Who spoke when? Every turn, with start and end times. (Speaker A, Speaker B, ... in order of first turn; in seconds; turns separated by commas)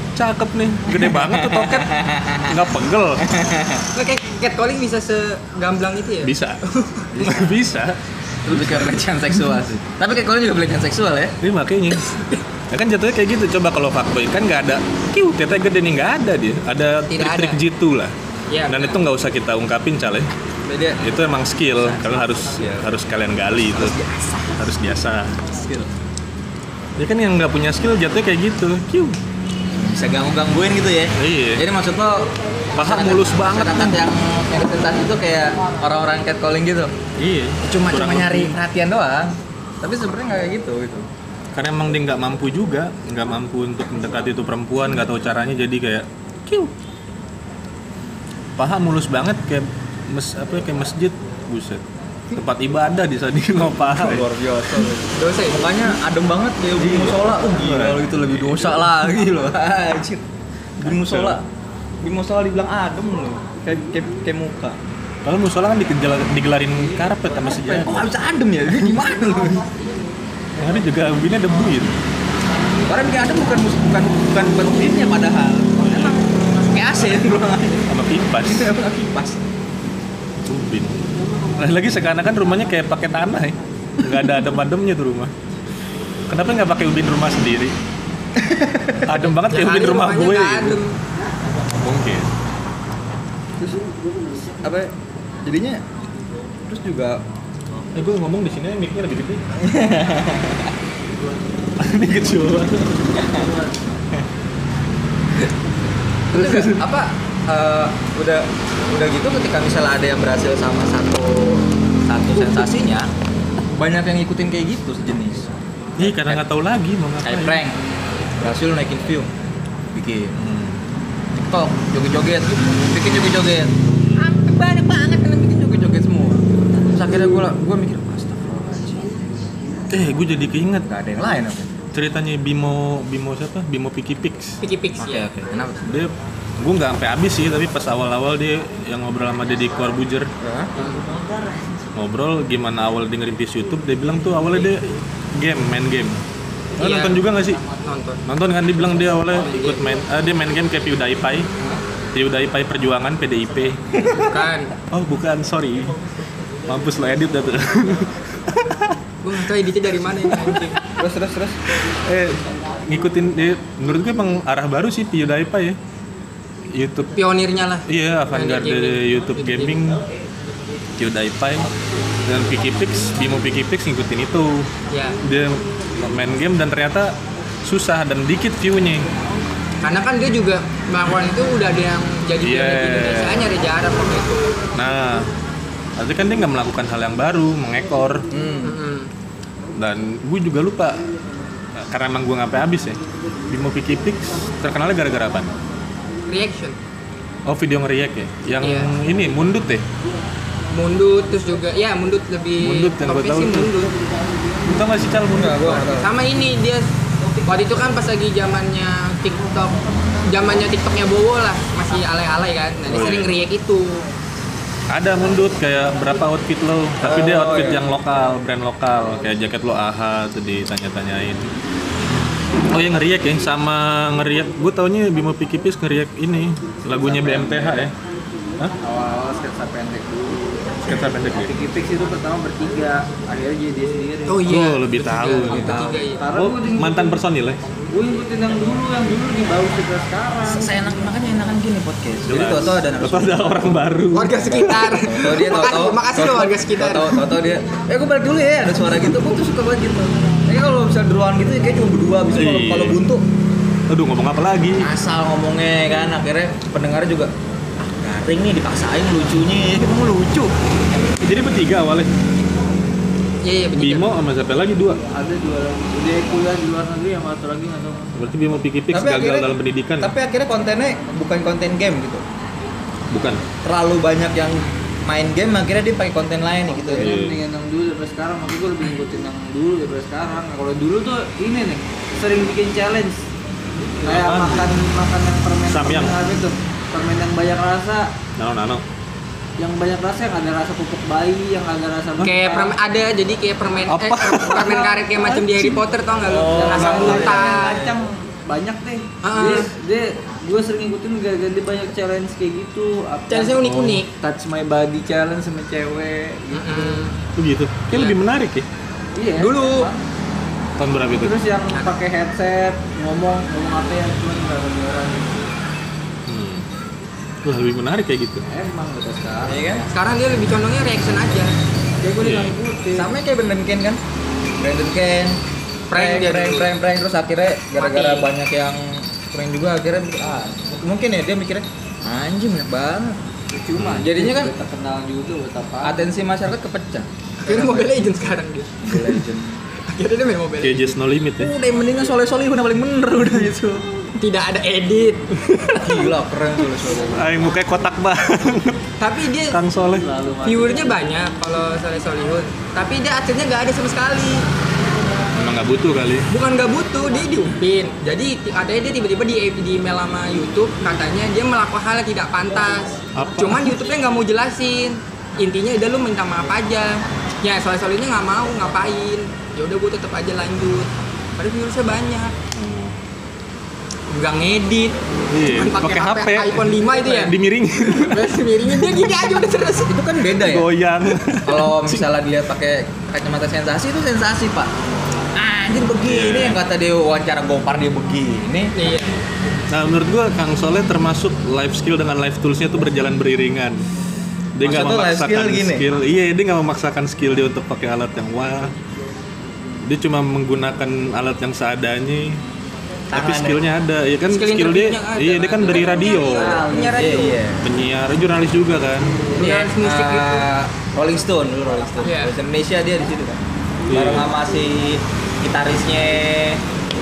Speaker A: 0.1-3.2, Speaker B: 0.9-2.6, Speaker B: 3.2-3.9, Speaker C: 3.9-7.1, Speaker A: 6.2-6.6, Speaker B: 7.1-7.6, Speaker A: 7.2-9.6, Speaker B: 8.4-11.4, Speaker A: 11.4-18.1, Speaker C: 17.1-17.6, Speaker C: 18.5-19.0, Speaker A: 18.7-20.3, Speaker B: 20.7-21.0, Speaker A: 21.0-24.0, Speaker B: 21.8-22.8, Speaker B: 23.7-24.6, Speaker A: 24.6-25.4, Speaker B: 25.6-25.9, Speaker A: 27.0-29.2, Speaker B: 29.7-36.9, Speaker A: 31.2-31.6, Speaker A: 32.8-34.0, Speaker A: 37.2-38.6, Speaker B: 37.6-41.1, Speaker A: 41.5-46.7, Speaker A: 48.6-54.9, Speaker B: 54.0-60.2, Speaker C: 55.1-55.9, Speaker A: 56.8-59.0, Speaker B: 60.8-61.5, Speaker A: 60.8-61.4, Speaker B: 62.0-64.8, Speaker A: 65.2-68.1, Speaker B: 67.4-69.7, Speaker A: 70.5-72.0, Speaker B: 72.9-77.9, Speaker A: 75.8-76.2, Speaker A: 77.9-78.7, Speaker B: 78.4-79.4, Speaker A: 80.5-81.0, Speaker A: 81.6-85.3, Speaker A: 86.3-87.8, Speaker B: 88.4-89.1, Speaker A: 89.0-90.8, Speaker C: 89.4-91.0, Speaker A: 91.8-92.3, Speaker B: 94.6-95.8, Speaker B: 96.7-97.2, Speaker A: 97.9-99.5, Speaker B: 99.5-100.8, Speaker A: 101.8-103.1, Speaker B: 103.2-103.5, Speaker D: 103.2-103.8, Speaker B: 106.3-113.1, Speaker A: 106.3-106.8, Speaker B: 113.7-116.4, Speaker A: 116.0-117.6, Speaker B: 117.2-117.8, Speaker B: 118.4-119.3, Speaker B: 119.9-120.3, Speaker A: 120.3-120.8, Speaker B: 121.4-129.1, Speaker A: 129.9-130.9, Speaker B: 130.9-131.8, Speaker A: 131.9-134.6, Speaker C: 134.6-135.3, Speaker B: 135.0-135.9, Speaker A: 135.8-140.3, Speaker B: 140.4-140.7, Speaker C: 140.8-141.1, Speaker A: 141.9-146.2, Speaker A: 146.8-147.6, Speaker C: 146.8-148.2, Speaker A: 148.3-151.5, Speaker C: 149.4-149.8, Speaker A: 152.1-154.2, Speaker C: 154.0-154.7, Speaker A: 154.9-156.0, Speaker A: 156.7-159.0, Speaker C: 159.2-160.8, Speaker A: 160.1-160.8, Speaker B: 161.0-161.6, Speaker A: 161.8-165.8, Speaker A: 166.7-167.2, Speaker C: 167.2-169.8, Speaker A: 167.9-170.0, Speaker A: 171.0-171.7, Speaker A: 172.3-174.7, Speaker C: 174.9-175.2, Speaker A: 175.2-179.1, Speaker C: 179.8-184.6, Speaker A: 182.4-183.5, Speaker A: 184.8-185.3, Speaker A: 186.0-188.3, Speaker B: 188.3-188.8, Speaker C: 188.6-189.1, Speaker A: 189.8-191.0, Speaker A: 191.7-195.5, Speaker C: 196.3-196.8, Speaker A: 197.5-199.9, Speaker C: 198.6-198.9, Speaker C: 200.7-203.9, Speaker A: 202.6-203.7, Speaker A: 204.6-205.9, Speaker B: 205.3-206.1, Speaker C: 206.0-206.9, Speaker C: 207.4-214.1, Speaker A: 212.9-213.3, Speaker A: 214.9-221.5, Speaker B: 217.0-217.9, Speaker A: 222.7-227.9, Speaker D: 226.9-227.9, Speaker D: 228.8-234.6, Speaker A: 230.8-231.6, Speaker C: 234.3-236.2, Speaker A: 234.5-237.6, Speaker D: 235.5-237.2, Speaker B: 235.5-236.0, Speaker D: 237.9-240.8, Speaker B: 240.5-243.8, Speaker A: 242.3-244.5, Speaker C: 244.1-247.3, Speaker B: 244.3-253.2, Speaker A: 252.3-253.1, Speaker A: 253.9-254.9, Speaker B: 254.8-260.5, Speaker A: 261.2-262.1, Speaker C: 263.4-264.1, Speaker A: 263.8-265.0, Speaker D: 265.1-268.2, Speaker A: 268.1-270.1, Speaker B: 268.9-272.2, Speaker A: 273.1-273.4, Speaker B: 273.6-277.1, Speaker D: 276.7-288.1, Speaker A: 277.0-277.4, Speaker A: 284.0-284.8, Speaker A: 285.7-286.2, Speaker A: 288.4-288.9, Speaker D: 289.6-292.8, Speaker C: 292.2-297.9, Speaker A: 293.9-294.8, Speaker D: 294.5-295.6, Speaker A: 295.4-295.8, Speaker D: 296.2-307.1, Speaker B: 296.5-297.9, Speaker A: 296.8-297.1, Speaker C: 299.2-299.7, Speaker C: 303.3-304.1, Speaker A: 303.6-304.0, Speaker C: 306.5-307.2, Speaker A: 307.4-308.7, Speaker C: 307.9-308.2, Speaker D: 309.1-310.0, Speaker B: 309.4-309.9, Speaker A: 310.8-311.4, Speaker D: 311.2-315.5, Speaker A: 316.3-316.7, Speaker A: 317.4-318.5, Speaker D: 318.5-319.9, Speaker B: 319.4-319.9, Speaker C: 319.9-321.5, Speaker D: 322.0-323.1, Speaker A: 322.2-322.6, Speaker B: 322.9-324.0, Speaker B: 324.6-325.4, Speaker C: 325.9-326.7, Speaker B: 325.9-333.2, Speaker C: 327.8-328.3, Speaker D: 333.5-336.1, Speaker A: 333.8-334.1, Speaker B: 334.0-334.5, Speaker B: 335.8-339.6, Speaker C: 337.4-339.1, Speaker C: 339.9-341.0, Speaker A: 340.6-341.5, Speaker B: 341.4-343.9, Speaker C: 344.2-345.3, Speaker A: 345.4-346.0, Speaker B: 345.8-347.4, Speaker A: 347.1-348.9, Speaker C: 349.0-349.6, Speaker A: 349.5-350.1, Speaker D: 349.8-351.0, Speaker C: 350.4-354.4, Speaker A: 355.4-356.3, Speaker C: 356.3-372.3, Speaker A: 363.1-363.8, Speaker A: 372.5-373.0, Speaker C: 374.1-374.9, Speaker A: 375.3-379.0, Speaker C: 375.5-380.0, Speaker B: 379.9-380.7, Speaker A: 380.4-382.1, Speaker B: 381.4-384.7, Speaker B: 385.4-388.8, Speaker A: 386.1-386.6, Speaker C: 388.8-389.2, Speaker A: 389.7-393.9, Speaker A: 394.6-398.8, Speaker B: 394.6-395.9, Speaker A: 399.8-402.4, Speaker B: 403.1-403.6, Speaker A: 403.1-406.6, Speaker C: 404.3-407.4, Speaker D: 405.6-407.1, Speaker B: 406.6-407.6, Speaker A: 407.6-409.2, Speaker C: 409.3-410.5, Speaker B: 409.4-416.6, Speaker C: 412.0-412.3, Speaker A: 413.9-414.3